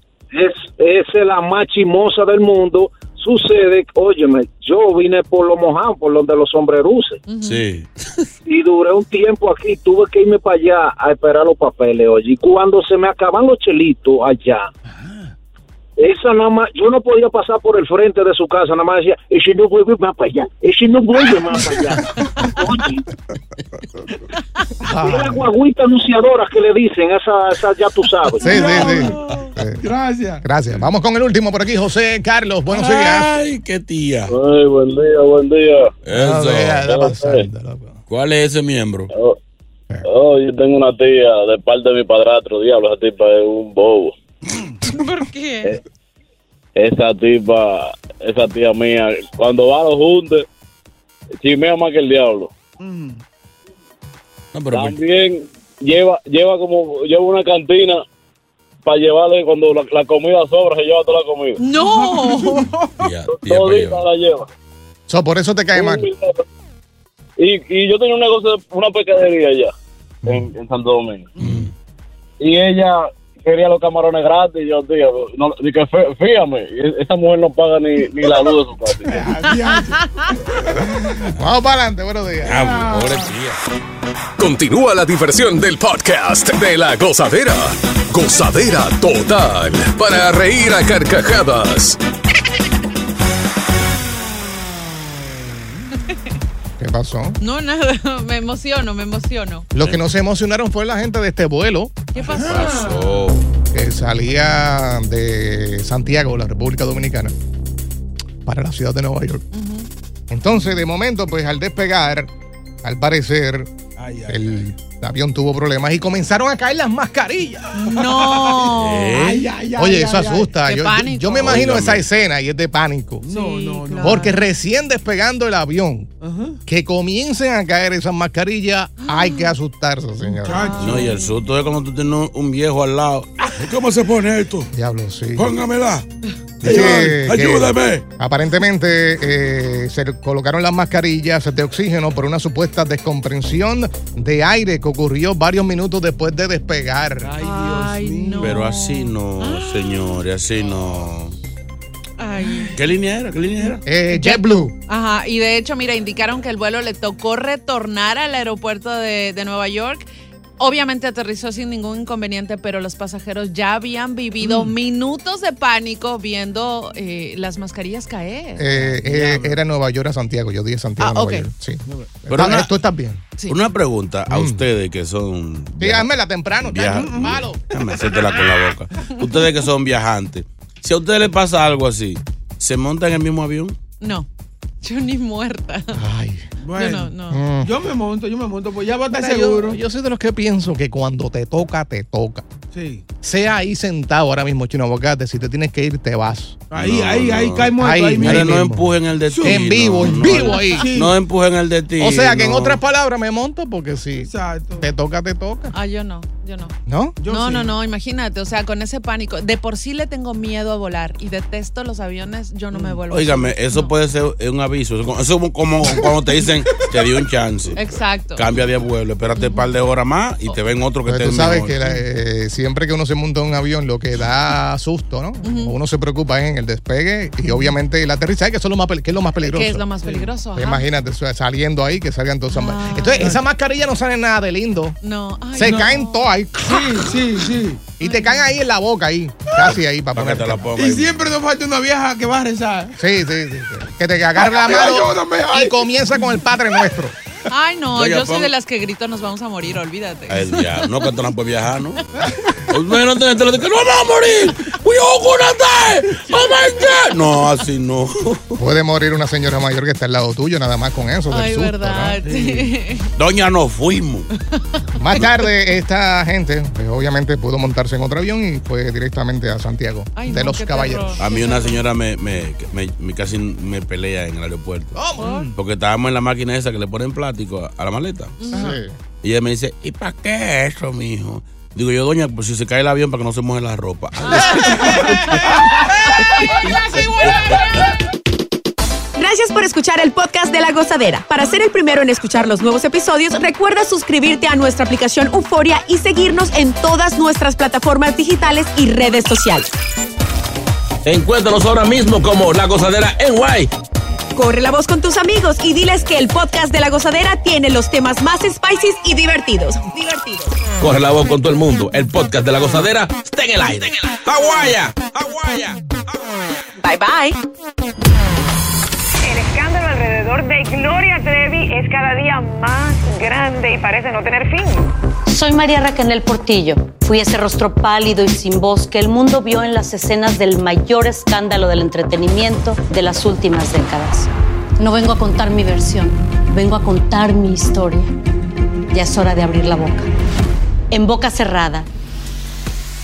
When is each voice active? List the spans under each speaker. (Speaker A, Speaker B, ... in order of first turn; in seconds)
Speaker A: 0.3-7.2, 8.4-14.7, 16.0-23.0, 24.9-28.8
Speaker B: 7.3-7.6, 28.7-29.4, 44.8-45.8, 61.6-62.7, 79.4-80.3, 97.4-99.7, 102.1-102.9, 109.5-109.9, 117.7-119.2, 120.6-121.5, 123.3-124.5, 129.0-129.5, 130.4-131.3, 147.4-149.1, 152.2-152.8, 154.1-160.0, 160.6-168.7, 171.0-171.5, 184.0-184.3, 184.8-186.0, 186.8-187.4, 205.7-206.7, 207.2-213.9, 217.8-218.4, 219.3-219.7, 225.4-225.7, 229.4-230.9, 232.5-233.3, 235.0-236.3, 238.0-238.5, 247.5-251.1, 261.3-263.1, 270.1-271.8, 275.2-275.5, 278.4-278.8, 284.3-285.1
Speaker C: 7.4-8.2, 32.7-34.3, 36.0-36.9, 38.1-39.1, 54.5-55.0, 63.0-64.1, 71.4-71.7, 82.4-83.6, 102.3-103.4, 118.8-119.5, 121.3-122.1, 130.8-134.7, 135.3-136.0, 136.6-138.0, 148.4-151.3, 152.7-153.8, 172.3-172.7, 173.5-176.1, 176.6-183.8, 196.7-202.8, 213.1-217.8, 218.3-221.8, 239.7-241.3, 247.9-248.5, 250.3-258.6, 263.1-264.3, 271.2-275.0, 275.6-278.4, 279.2-285.2, 301.0-303.7, 310.8-315.8
Speaker D: 14.9-15.3, 28.5-29.2, 29.8-30.4, 44.5-44.8, 52.8-53.2, 61.8-63.1, 71.4-71.7, 79.0-81.3, 82.5-83.3, 102.3-102.9, 114.0-114.6, 117.9-120.5, 123.2-124.4, 126.2-126.6, 130.4-131.1, 147.2-148.6, 152.4-152.8, 164.4-164.7, 168.7-169.6, 171.9-172.2, 176.9-177.5, 186.6-189.8, 192.7-193.0, 196.7-198.6, 199.3-201.2, 204.2-204.9, 207.2-207.7, 212.7-213.0, 230.0-230.3, 235.6-235.9, 236.6-237.8, 240.7-243.0, 244.4-245.8, 252.2-252.5, 262.2-262.7, 275.2-275.5, 278.5-278.8
Speaker E: 24.9-25.5, 28.4-29.9, 30.4-33.3, 36.1-38.0, 65.1-66.1, 70.2-70.5, 81.4-82.6, 96.8-97.4, 99.7-102.1, 103.7-107.3, 108.5-109.4, 110.3-112.3, 112.8-113.7, 114.3-117.7, 119.8-123.2, 124.0-126.1, 126.7-130.7, 134.7-135.5, 136.6-147.3, 153.8-154.7, 168.6-173.2, 174.3-174.6, 175.8-177.6, 185.9-186.4, 187.3-187.8, 189.1-192.4, 193.2-196.6, 197.8-200.9, 202.0-205.7, 206.8-207.2, 221.1-229.8, 230.5-235.0, 235.5-236.8, 238.0-240.7, 242.9-247.1, 258.6-262.1, 265.0-271.2, 274.9-275.4, 278.5-278.9, 284.6-285.4
Speaker F: 34.3-35.9, 36.9-37.5, 40.0-44.1, 46.8-50.4, 51.4-52.5, 54.7-58.0, 58.9-61.6, 63.3-64.5, 65.7-66.4, 67.4-69.7, 70.2-71.3, 72.4-79.3
Speaker G: 84.4-92.0
Speaker H: 289.1-299.7, 304.4-310.6, 316.8-317.4
Speaker I: 319.2-324.9
Speaker J: 325.3-338.1, 338.9-340.1, 340.9-341.9